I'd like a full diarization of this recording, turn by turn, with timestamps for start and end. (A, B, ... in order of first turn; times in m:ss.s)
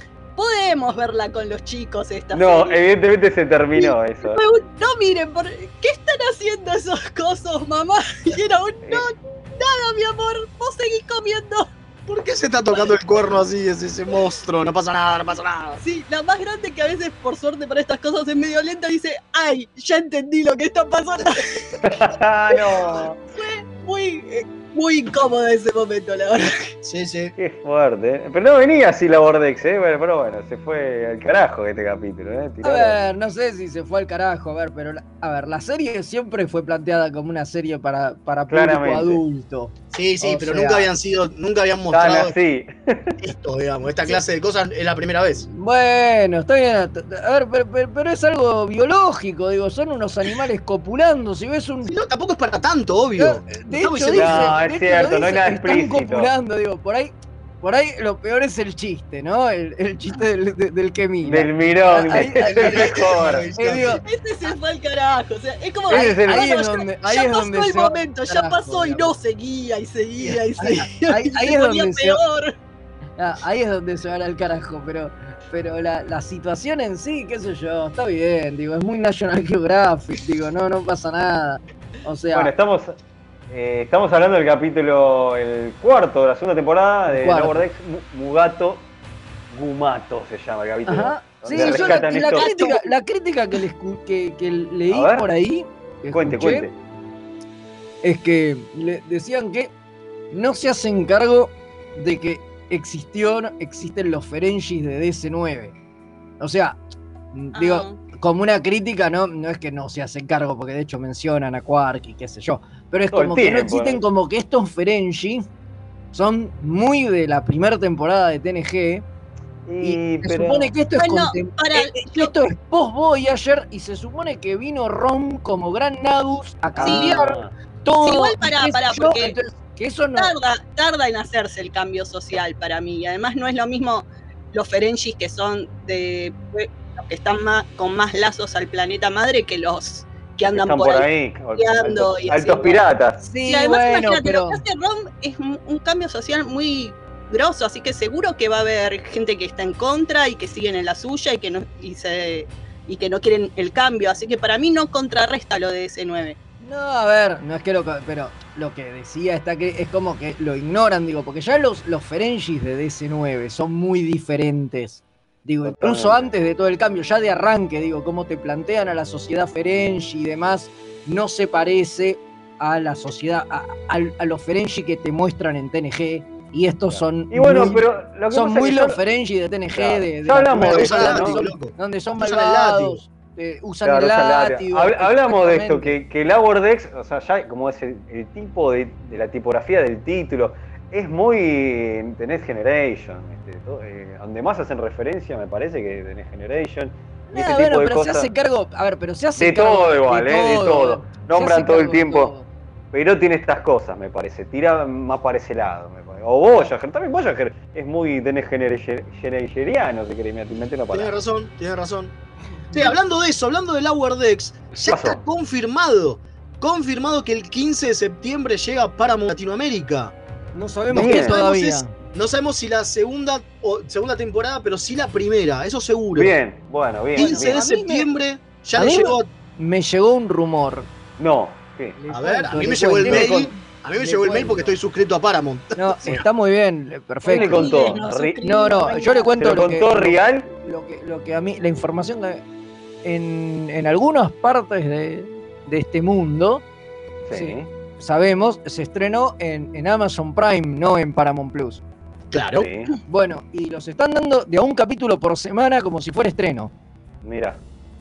0:00.3-0:02.8 A
0:02.3-0:04.4 B
0:03.8-0:11.7 A
0:12.1-0:15.8 C
0:15.8-0:21.7 A
0:21.8-0:23.2 B
0:23.3-0:26.7 A
0:26.8-0:27.3 C
0:27.4-0:33.0 B
0:32.6-0:40.9 D
0:38.5-0:39.2 B
0:39.9-0:42.3 C
0:41.9-0:43.2 B
0:43.2-0:45.4 C
0:45.4-0:51.9 D
0:51.8-0:54.6 C
0:53.2-1:04.0 D
0:54.1-0:56.3 B
1:01.2-1:03.5 B
1:02.2-1:04.0 C
1:04.0-1:12.5 A
1:05.9-1:06.2 C
1:05.9-1:06.2 B
1:06.2-1:09.1 D
1:10.6-1:12.2 D
1:13.2-1:22.5 D
1:22.3-1:23.0 B
1:23.5-1:28.8 B
1:27.1-1:27.6 D
1:29.5-1:32.5 B
1:30.8-1:36.7 D
1:31.5-1:32.8 A
1:34.9-1:35.3 B
1:36.1-1:36.7 B
1:38.0-1:39.7 D
1:40.3-1:45.7 D
1:46.4-1:46.8 D
1:47.3-1:55.4 D
1:47.5-1:48.0 A
1:53.1-1:54.0 B
1:56.1-1:59.0 D
1:59.7-2:00.7 B
1:59.8-2:10.3 D
2:00.9-2:02.3 A
2:06.7-2:07.5 B
2:06.8-2:07.2 A
2:08.0-2:09.3 A
2:10.2-2:22.8 A
2:20.5-2:23.2 B
2:23.2-2:24.6 D
2:23.4-2:36.4 A
2:36.6-3:06.0 D
2:45.6-2:46.3 B
2:56.9-2:59.0 B
2:59.7-3:01.4 B
3:00.6-3:03.0 C
3:03.8-3:18.3 B
3:17.3-3:22.5 D
3:19.4-3:22.3 B
3:22.9-3:31.1 B
3:30.9-3:32.1 C
3:32.7-3:40.1 C
3:34.7-3:35.2 B
3:40.5-3:41.9 D
3:40.9-3:41.4 B
3:40.9-3:46.3 C
3:46.1-3:47.6 B
3:47.1-3:49.3 C
3:47.2-3:48.1 D
3:48.8-3:50.9 D
3:51.2-3:52.0 B
3:52.0-3:54.7 D
3:52.1-3:56.2 C
3:53.0-3:53.3 B
3:55.8-3:57.7 D
3:57.2-3:58.4 B
3:57.3-3:59.3 A
3:58.4-4:02.4 D
3:59.4-4:00.5 B
4:03.0-4:06.6 D
4:07.2-4:07.7 B
4:07.3-4:11.8 D
4:12.3-4:12.7 C
4:12.6-4:12.9 B
4:13.1-4:16.7 D
4:17.2-4:17.6 B